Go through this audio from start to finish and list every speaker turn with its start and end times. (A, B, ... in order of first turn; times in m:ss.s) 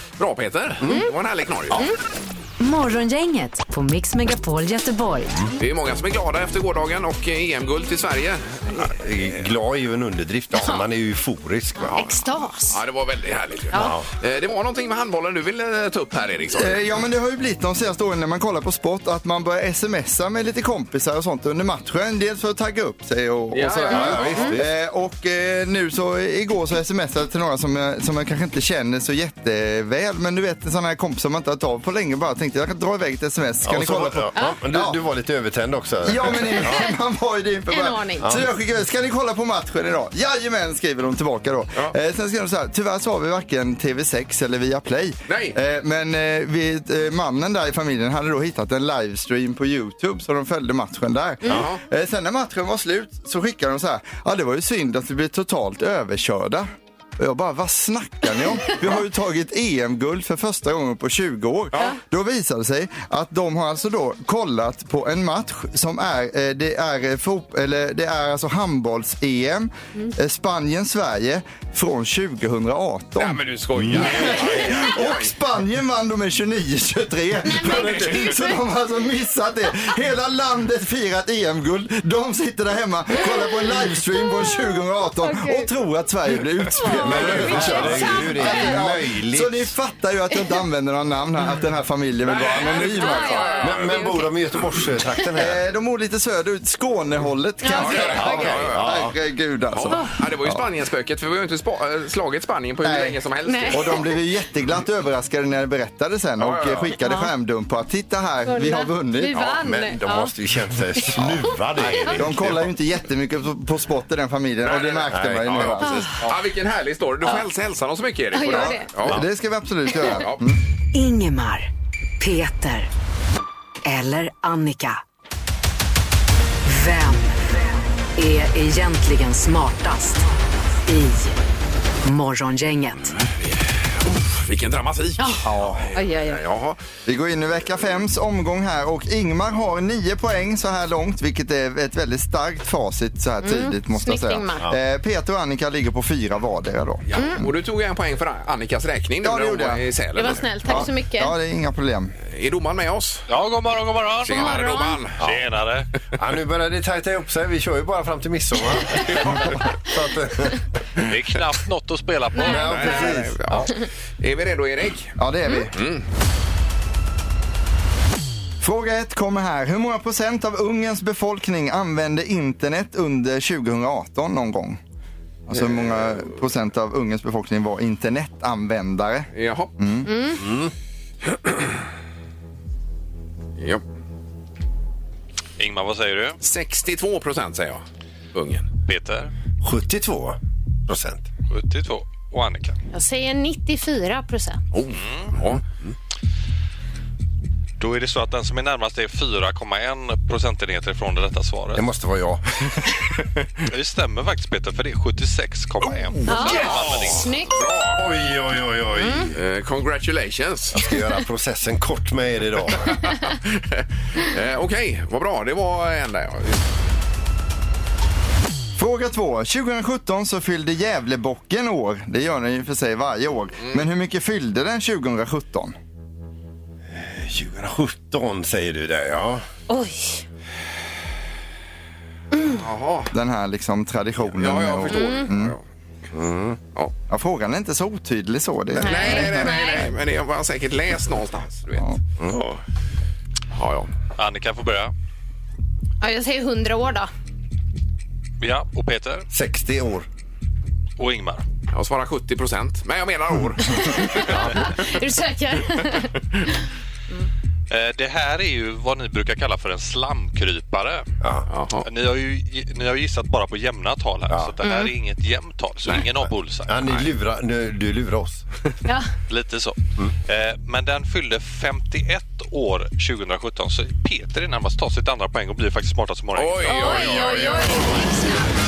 0:00.2-0:01.8 A
0:00.8-0:01.1 B
0:02.6-0:05.3 C
0:05.6-0:08.9 A
0:08.7-0:12.0 B
0:10.6-0:10.8 D
0:11.8-0:12.8 D
0:11.8-0:16.8 A
0:13.7-0:14.1 B
0:16.5-0:35.0 E
0:23.5-0:24.7 B
0:23.6-0:24.3 A
0:23.9-0:24.5 D
0:33.6-0:36.8 B
0:36.0-1:33.6 E
0:36.6-0:36.9 D
0:37.7-0:38.3 D
0:38.2-0:38.5 B
0:45.3-0:45.6 A
0:51.5-0:51.8 A
1:13.2-1:15.3 A
1:13.8-1:14.6 B
1:17.4-1:18.6 D
1:17.6-1:18.4 A
1:25.2-1:25.7 D
1:26.8-1:28.7 D
1:27.0-1:29.7 B
1:32.2-1:34.2 A
1:32.7-1:34.2 D
1:33.6-1:35.6 B
1:35.4-1:40.6 E
1:37.6-1:38.5 D
1:37.7-1:39.1 A
1:37.9-1:39.1 B
1:39.7-1:44.1 A
1:42.8-1:43.2 E
1:43.4-1:44.0 D
1:43.7-1:49.5 E
1:46.4-1:46.9 A
1:47.0-1:47.3 D
1:48.5-1:50.3 D
1:49.3-1:52.7 B
1:51.2-1:52.2 D
1:52.2-1:56.2 E
1:54.6-1:59.2 A
1:55.1-1:55.8 B
1:55.8-1:56.1 D
1:58.3-1:58.9 D
1:58.4-2:00.6 E
2:00.1-2:00.5 A
2:00.9-2:02.9 C
2:03.8-2:05.0 C
2:06.6-2:07.4 C
2:08.2-2:10.2 C
2:10.8-2:11.4 C
2:12.0-2:13.1 C
2:13.0-2:16.8 A
2:15.2-2:16.4 D
2:15.4-2:15.9 E
2:17.0-2:27.4 E
2:23.4-2:24.6 D
2:27.2-2:27.4 D
2:27.4-2:30.9 A
2:29.2-2:32.1 E
2:30.2-2:31.3 D
2:32.3-2:33.2 A
2:33.3-2:34.7 F
2:34.2-2:35.2 A
2:34.3-2:35.0 D
2:35.2-2:35.5 B
2:35.2-2:35.9 F
2:36.2-2:40.6 B
2:41.0-2:43.1 F
2:42.3-2:42.6 D
2:42.4-2:43.4 B
2:42.6-2:45.2 A
2:45.2-2:45.8 E
2:45.8-2:46.0 A
2:48.6-2:54.8 E
2:55.5-3:00.3 E
2:55.5-2:56.3 A
2:59.3-2:59.7 A
3:00.0-3:00.4 D
3:00.3-3:00.7 B
3:03.6-3:03.8 A
3:05.6-3:06.4 F
3:06.4-3:07.8 A
3:08.3-3:08.7 A
3:08.8-3:09.3 F
3:09.6-3:11.2 B
3:11.5-3:12.8 F
3:12.9-3:14.6 D
3:14.7-3:15.6 A
3:15.0-3:15.3 F
3:17.8-3:21.8 F
3:21.7-3:23.0 B
3:23.7-3:27.2 F
3:26.3-3:27.6 D
3:26.3-3:28.0 A
3:26.6-3:27.1 B
3:27.9-3:29.3 B
3:29.0-3:29.3 D
3:29.3-3:30.8 A
3:30.7-3:33.0 B
3:32.8-3:36.6 A
3:38.8-3:45.8 E
3:46.9-3:49.4 B
3:49.7-3:50.2 D
3:52.3-3:52.6 D
3:52.5-3:53.1 A
3:53.1-3:55.6 E
3:54.3-3:55.6 A
3:54.9-3:55.3 D
3:56.1-3:56.6 B
3:57.1-3:59.6 E
3:58.8-3:59.9 D
3:58.8-4:02.6 A
4:03.5-4:03.9 A
4:04.2-4:04.9 F
4:06.0-4:07.1 D
4:08.4-4:09.3 F
4:09.3-4:10.1 B
4:11.0-4:11.4 F
4:11.7-4:14.3 A
4:13.7-4:16.1 D
4:14.3-4:14.6 B
4:17.7-4:21.1 F
4:21.5-4:21.8 A
4:21.8-4:27.1 F
4:24.6-4:24.9 D
4:26.7-4:28.4 B
4:29.3-4:37.2 F
4:36.3-4:38.0 A
4:36.7-4:38.5 D
4:37.2-4:37.8 B